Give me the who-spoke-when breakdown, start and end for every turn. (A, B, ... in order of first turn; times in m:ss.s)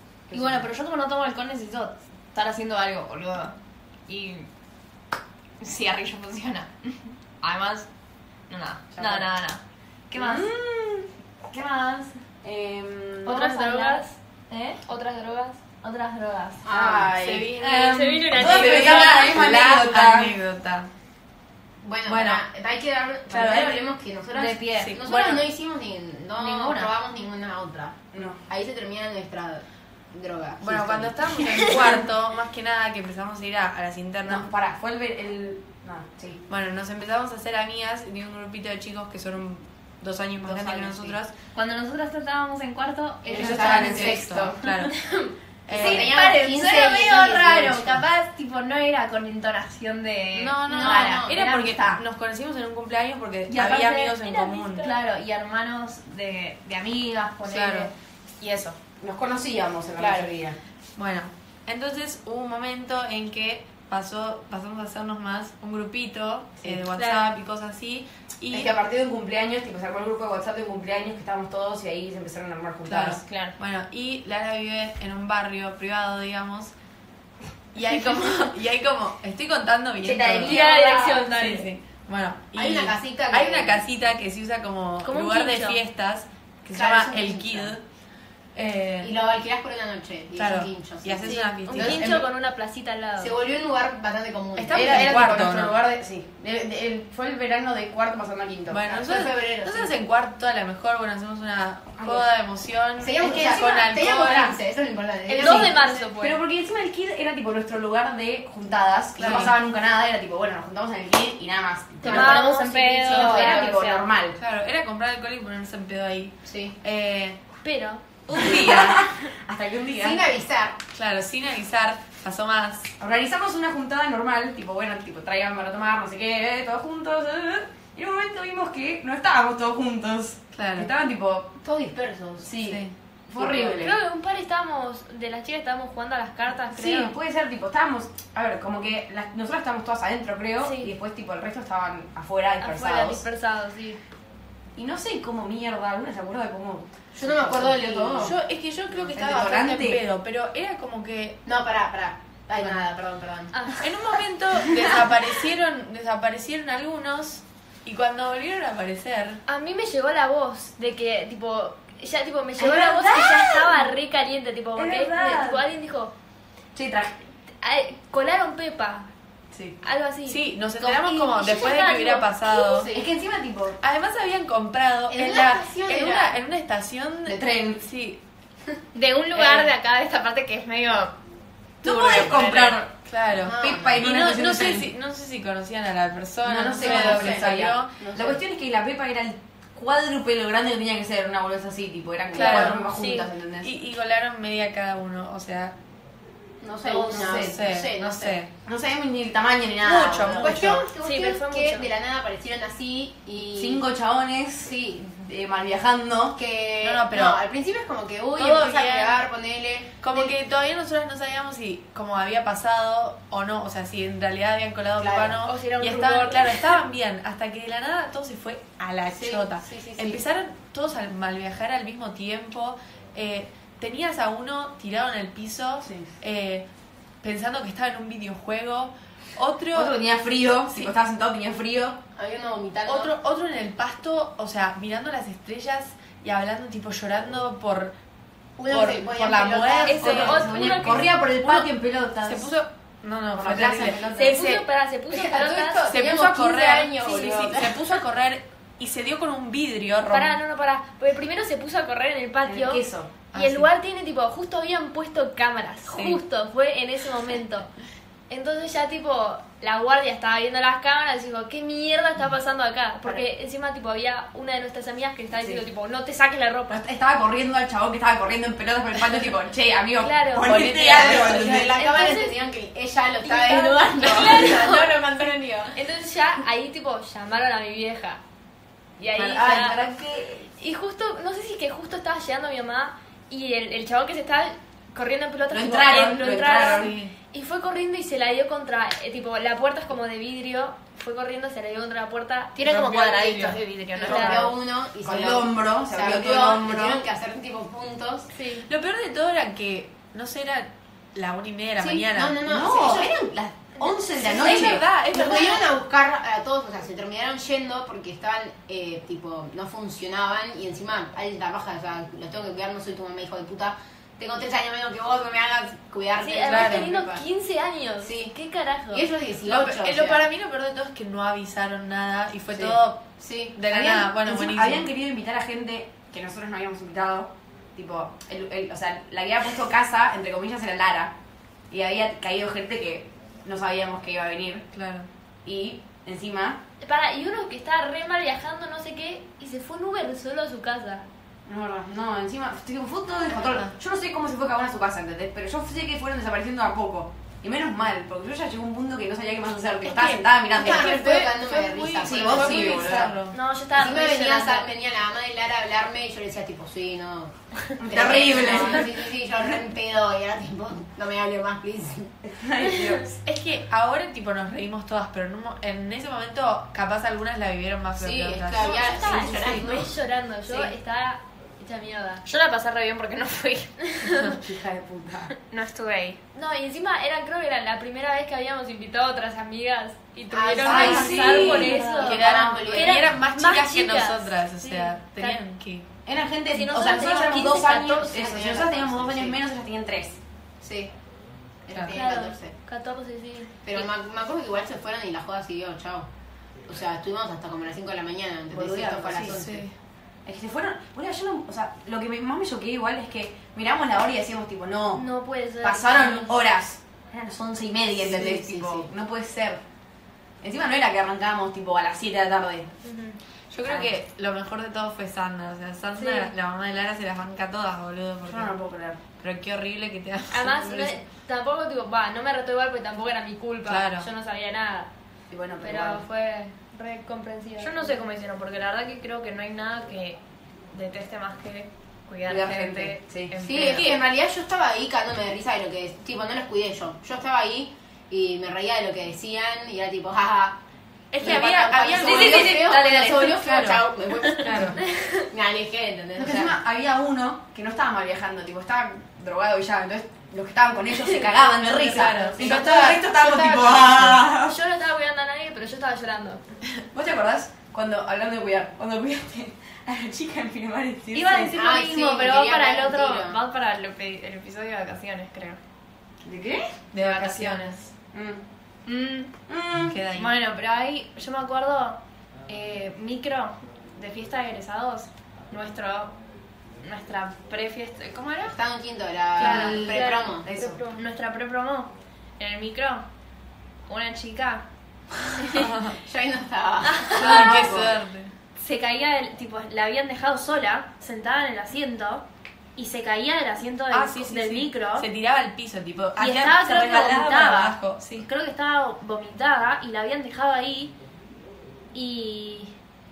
0:00.3-0:00.6 A
0:00.3-0:03.5 B
0:04.1-0:04.5 B
0:05.6-0:07.9 B
0:08.5-0:10.5 B
0:09.0-0:09.3 A
0:10.1-0:11.1 A
0:11.5-0:12.2 B
0:12.4-0:13.4 A
0:13.2-0:14.2 C
0:13.2-0:14.8 B
0:14.8-0:15.6 C
0:15.8-0:16.6 B
0:16.6-0:17.2 D
0:16.7-0:20.3 A
0:17.1-0:20.9 E
0:17.7-0:19.5 C
0:21.8-0:31.6 D
0:22.1-0:22.4 E
0:23.3-0:23.8 B
0:24.3-0:25.0 B
0:24.8-0:25.5 E
0:26.4-0:26.9 B
0:28.1-0:28.4 A
0:30.6-0:34.5 E
0:34.2-0:36.4 A
0:36.5-0:41.3 E
0:40.5-0:41.1 A
0:41.5-0:44.2 B
0:43.3-0:44.6 D
0:43.3-0:44.3 A
0:43.3-0:45.0 E
0:45.7-0:46.1 E
0:45.7-0:48.0 D
0:45.7-0:52.0 B
0:50.3-0:54.9 E
0:50.6-0:51.4 D
0:53.5-0:54.2 B
0:54.2-0:55.0 C
0:54.8-0:58.8 B
0:57.4-0:57.9 E
0:59.0-1:00.6 A
1:00.0-1:00.3 B
1:01.0-1:08.7 E
1:06.9-1:07.2 C
1:08.5-1:13.2 A
1:12.8-1:16.7 E
1:13.2-1:13.6 B
1:17.7-1:27.8 E
1:20.0-1:21.1 A
1:20.4-1:21.7 C
1:22.5-1:23.8 D
1:25.0-1:25.8 C
1:26.7-1:27.7 D
1:28.5-1:29.1 E
1:29.0-1:32.1 D
1:30.4-1:32.2 E
1:31.2-1:33.4 C
1:31.8-1:32.2 A
1:33.2-1:35.2 D
1:34.6-1:35.7 E
1:34.7-1:38.9 A
1:38.7-1:44.6 E
1:38.8-1:40.0 D
1:43.0-1:45.8 D
1:43.2-1:43.6 A
1:45.3-1:46.4 C
1:45.4-1:46.0 E
1:45.4-1:52.5 A
1:49.2-1:49.6 E
1:52.0-1:53.8 C
1:52.0-1:54.0 B
1:53.1-1:54.4 A
1:54.3-1:57.4 E
1:56.4-1:56.7 D
1:57.6-1:58.5 C
1:58.3-2:00.2 A
1:58.3-1:59.1 E
2:00.0-2:00.8 D
2:00.9-2:02.9 E
2:03.0-2:11.5 A
2:10.5-2:10.9 E
2:11.6-2:12.5 D
2:12.4-2:14.0 A
2:12.6-2:12.9 E
2:13.4-2:13.8 D
2:13.7-2:17.1 C
2:16.7-2:23.2 A
2:20.6-2:20.9 C
2:22.6-2:24.0 C
2:24.8-2:28.3 A
2:27.1-2:28.4 D
2:28.2-2:31.4 E
2:29.0-2:30.0 A
2:31.4-2:33.7 D
2:33.5-2:33.8 C
2:33.8-2:39.4 E
2:39.5-2:46.1 C
2:42.6-2:43.9 A
2:44.7-2:45.6 A
2:46.7-2:47.2 A
2:47.6-2:49.1 C
2:49.5-2:49.8 A
2:49.8-2:52.8 C
2:50.2-2:52.9 E
2:52.7-2:53.1 D
2:52.9-2:53.8 A
2:53.8-2:58.2 E
2:55.1-2:56.4 D
2:57.3-2:57.8 A
2:58.9-3:01.1 B
2:59.4-2:59.7 E
3:01.8-3:02.8 B
3:01.8-3:02.9 A
3:02.9-3:07.9 E
3:03.4-3:04.0 D
3:03.5-3:04.9 A
3:06.4-3:13.7 A
3:06.7-3:08.4 D
3:12.3-3:12.9 E
3:12.4-3:13.3 C
3:13.6-3:15.7 E
3:16.6-3:18.4 D
3:16.8-3:17.6 A
3:16.9-3:18.5 E
3:18.6-3:20.6 A
3:19.8-3:20.9 E
3:20.3-3:23.8 D
3:20.9-3:21.9 C
3:23.5-3:26.4 A
3:24.6-3:25.2 D
3:26.4-3:30.3 D
3:26.8-3:27.4 E
3:28.3-3:29.2 E
3:30.0-3:46.7 E
3:35.0-3:35.4 D
3:35.4-3:36.7 C
3:39.1-3:40.2 D
3:47.2-3:50.0 E
3:49.7-3:52.0 A
3:52.1-3:53.1 D
3:52.8-3:58.0 E
3:58.6-4:00.4 D
3:58.7-4:00.4 E
3:59.8-4:01.2 C
4:00.0-4:02.5 A
4:01.3-4:01.7 E
4:02.2-4:04.6 E
4:03.3-4:04.3 A
4:03.5-4:04.0 D
4:04.1-4:05.9 C
4:05.1-4:07.9 D
4:05.8-4:10.4 E
4:10.0-4:17.7 C
4:12.4-4:13.2 A
4:13.3-4:13.7 E
4:15.9-4:16.2 E
4:18.3-4:26.8 C
4:25.4-4:25.6 A
4:26.7-4:31.7 A
4:30.0-4:32.4 C
4:30.4-4:31.6 E
4:30.8-4:35.8 D
4:33.2-4:35.0 C
4:35.7-4:38.2 C
4:39.0-4:39.9 C
4:39.1-4:40.5 A
4:40.5-4:52.7 C
4:45.5-4:46.9 A
4:46.7-4:47.1 E
4:52.5-4:54.5 B
4:54.0-4:58.3 D
4:54.0-4:54.5 C
4:55.0-4:57.0 A
4:58.3-4:58.7 C
4:58.7-5:02.5 E
5:01.8-5:03.1 D
5:02.4-5:04.8 A
5:04.1-5:17.2 D
5:04.3-5:05.7 E
5:16.2-5:19.1 C
5:16.5-5:16.9 E
5:18.0-5:18.3 D
5:18.9-5:20.2 D
5:19.4-5:24.9 E
5:23.2-5:23.6 D
5:23.7-5:31.1 A
5:31.7-5:34.6 A
5:34.7-5:35.1 E
5:35.4-5:36.6 A
5:36.8-5:41.1 C
5:41.5-5:51.1 A
5:43.5-5:43.7 E
5:49.8-5:53.4 E
5:50.5-5:53.1 D
5:52.0-5:53.1 A
5:53.3-5:54.7 C
5:53.7-6:02.2 D
5:57.8-5:58.9 A
6:02.2-6:03.2 A
6:03.2-6:08.8 E
6:07.9-6:09.9 D
6:08.5-6:12.2 C
6:10.5-6:10.7 D
6:12.2-6:14.0 B
6:13.9-6:14.3 C
6:14.1-6:14.4 E
6:14.3-6:15.3 A
6:15.4-6:16.2 B
6:16.3-6:25.4 C
6:20.3-6:23.1 D
6:20.6-6:21.9 A
6:20.7-6:25.9 E
6:21.5-6:22.0 B
6:26.0-6:30.2 A
6:26.5-6:28.4 C
6:28.0-6:29.4 D
6:30.6-6:30.9 D
6:31.6-6:32.6 D
6:31.9-6:33.5 C
6:33.6-6:36.1 D
6:36.7-6:39.7 D
6:38.5-6:39.5 A
6:39.2-6:39.8 E
6:40.2-6:45.1 A
6:44.9-6:46.4 C
6:45.6-6:49.6 A
6:48.0-6:48.9 D
6:50.4-6:52.7 A
6:52.8-6:53.2 C
6:53.5-6:58.5 E
6:53.6-6:53.9 A
6:56.0-6:56.3 C
6:58.2-6:59.0 A
6:59.1-7:00.7 E
7:00.3-7:04.9 C
7:00.5-7:00.9 A
7:03.6-7:04.1 E
7:05.3-7:06.0 A
7:05.6-7:08.0 C
7:07.6-7:10.2 B
7:10.7-7:14.0 B
7:12.2-7:13.3 A
7:13.4-7:20.6 D
7:13.7-7:14.0 E
7:21.1-7:23.9 E
7:21.2-7:26.6 D
7:22.0-7:23.4 B
7:22.1-7:22.5 A
7:24.1-7:24.4 B
7:24.4-7:24.8 E
7:24.8-7:25.2 C
7:26.2-7:34.6 A
7:31.6-7:33.0 E
7:32.3-7:34.2 D
7:34.4-7:36.4 C
7:36.9-7:41.5 A
7:41.1-7:45.6 B
7:41.5-7:43.4 D
7:46.2-7:46.7 A
7:46.9-7:47.9 E
7:47.0-7:47.8 B
7:48.1-7:48.4 A
7:48.8-7:49.3 B
7:49.5-7:50.0 A
7:49.8-7:50.3 E
7:50.1-7:56.2 B
7:56.8-7:58.6 B
7:58.5-8:00.5 D
7:59.4-7:59.9 B
7:59.4-8:01.0 C
7:59.4-8:00.8 A
8:00.9-8:03.0 B
8:03.9-8:04.6 B
8:05.3-8:05.7 B
8:05.5-8:06.0 E
8:06.0-8:07.9 D
8:06.9-8:07.5 B
8:07.1-8:08.3 E
8:07.2-8:07.7 A
8:08.6-8:15.1 B
8:13.9-8:18.2 E
8:16.2-8:21.0 B
8:21.9-8:22.7 B